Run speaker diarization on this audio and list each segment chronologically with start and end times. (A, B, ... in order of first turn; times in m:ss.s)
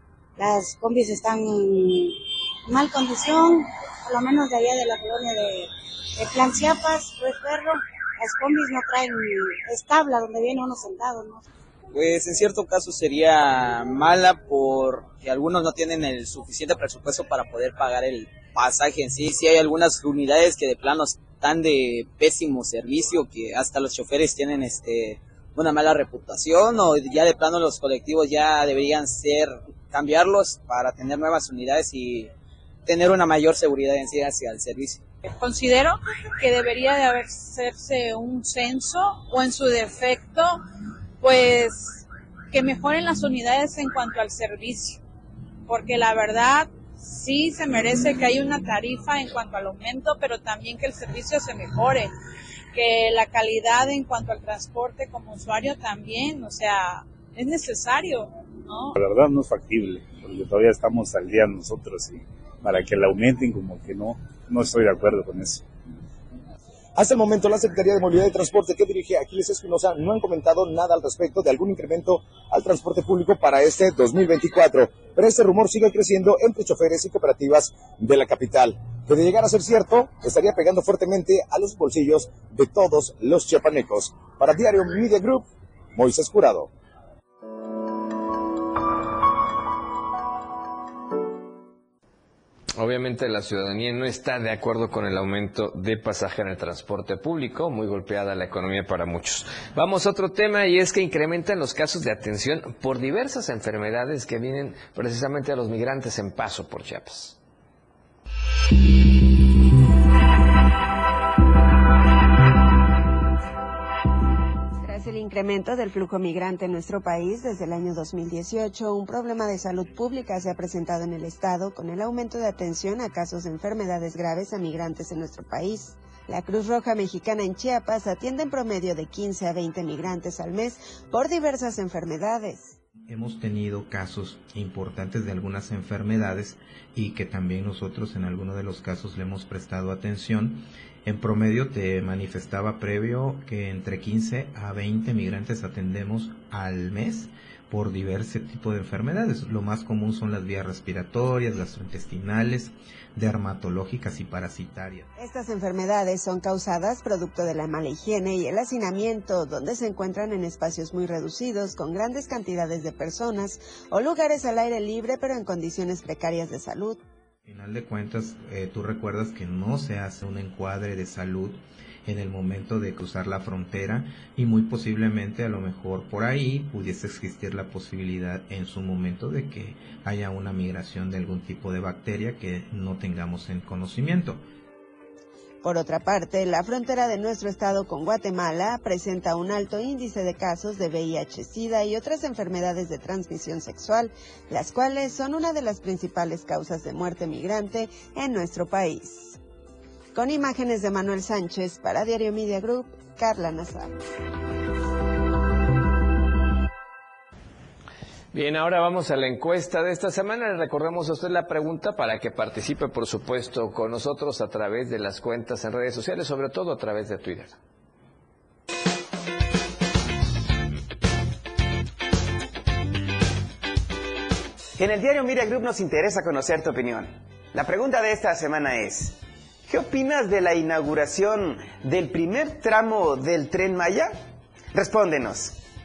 0:00.4-0:11.4 A
0:11.9-0:32.3 B
0:32.9-0:35.0 B
0:35.2-0:40.6 C
0:41.2-0:45.0 C
0:45.7-0:52.2 C
0:52.7-0:58.9 C
0:59.0-1:05.6 D
1:07.0-1:26.7 E
1:32.8-1:47.4 F
1:54.8-2:12.8 G
2:13.1-2:35.1 H
2:35.2-2:47.0 G
2:47.5-3:04.4 H
3:05.6-3:19.4 G
3:20.1-3:24.0 G
3:28.3-3:37.6 F
3:44.8-3:49.2 I
3:49.7-3:54.2 I
3:54.7-3:55.6 I